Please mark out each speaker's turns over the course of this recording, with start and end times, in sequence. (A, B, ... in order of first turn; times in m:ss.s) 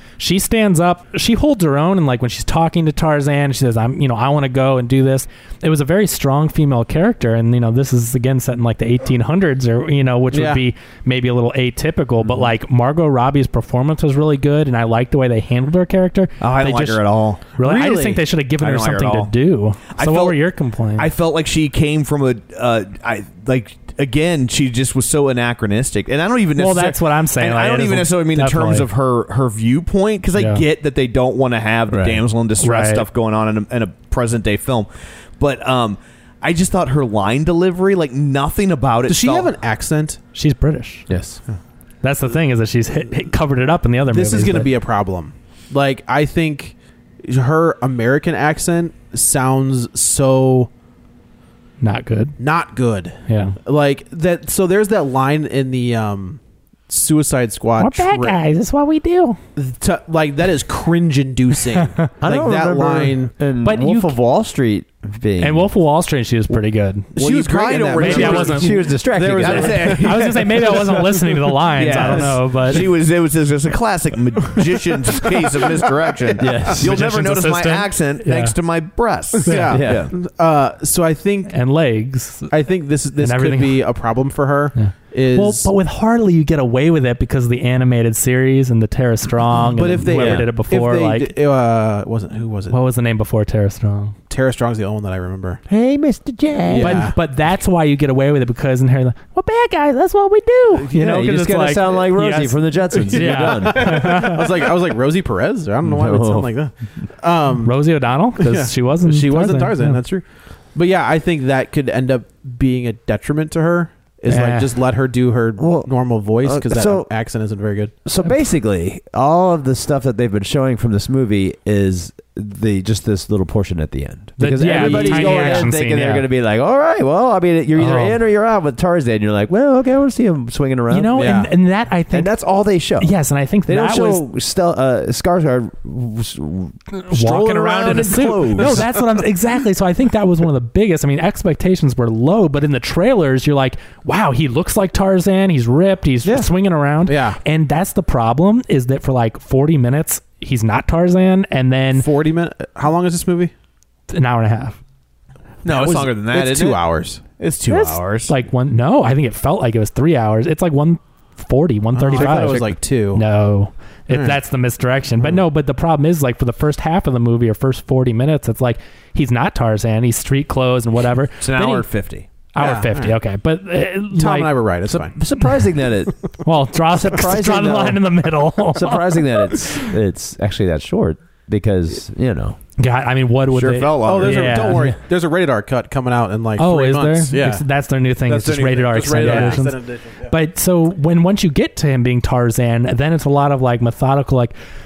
0:00.2-0:21.1 A
0:10.3-0:10.6 B
0:16.4-0:17.4 C
0:17.6-0:18.2 B
0:18.6-0:19.3 C
0:19.9-0:20.4 C
0:21.0-0:39.5 C
0:26.6-0:28.9 A
0:30.4-0:30.6 A
0:31.9-0:32.2 D
0:32.6-0:33.1 A
0:39.1-0:40.2 B
0:40.3-0:41.0 A
0:41.1-0:41.4 D
0:42.0-0:44.7 A
0:44.1-0:50.7 B
0:51.8-0:52.4 A
0:52.4-0:58.4 B
0:53.3-0:53.6 A
0:57.8-0:59.4 A
0:59.6-1:03.3 B
1:02.2-1:05.7 D
1:03.6-1:04.1 A
1:05.4-1:07.1 A
1:07.1-1:11.5 B
1:07.2-1:11.1 C
1:08.0-1:08.7 A
1:08.0-1:10.1 D
1:10.0-1:12.9 A
1:11.7-1:20.1 C
1:15.1-1:15.8 B
1:16.4-1:17.0 D
1:16.8-1:18.6 A
1:19.4-1:21.5 B
1:19.4-1:19.8 A
1:19.7-1:20.1 D
1:21.5-1:22.5 A
1:22.5-1:25.7 B
1:23.2-1:23.8 A
1:24.8-1:31.3 A
1:29.8-1:32.8 B
1:30.1-1:30.5 D
1:32.7-1:34.1 A
1:34.3-1:35.6 B
1:35.7-1:37.0 D
1:36.6-1:37.2 B
1:36.8-1:44.5 A
1:40.9-1:44.2 D
1:43.1-1:47.8 B
1:45.8-1:46.5 D
1:47.6-1:50.0 A
1:48.4-1:57.9 B
1:54.3-1:54.7 A
1:55.6-1:57.1 D
1:58.0-2:11.4 D
2:04.4-2:06.3 A
2:04.6-2:05.7 B
2:07.7-2:08.2 A
2:10.9-2:12.3 A
2:11.1-2:11.5 B
2:12.1-2:16.8 D
2:13.0-2:14.2 A
2:16.9-2:32.1 A
2:17.1-2:18.8 C
2:17.9-2:18.5 D
2:27.0-2:27.4 B
2:31.9-2:33.5 B
2:34.1-2:34.8 A
2:35.6-2:36.8 C
2:35.6-2:37.2 B
2:37.4-2:38.3 C
2:37.7-2:51.9 A
2:41.9-2:43.2 B
2:44.1-2:44.4 B
2:51.4-2:52.3 C
2:52.5-2:54.5 A
2:52.6-2:53.2 B
2:54.1-2:55.1 B
2:54.9-2:56.2 D
2:56.4-2:59.0 A
2:56.9-2:58.0 D
2:58.8-3:02.6 D
3:02.8-3:04.9 A
3:03.5-3:04.7 C
3:04.0-3:07.6 B
3:06.6-3:14.5 A
3:08.3-3:10.3 B
3:09.1-3:09.6 C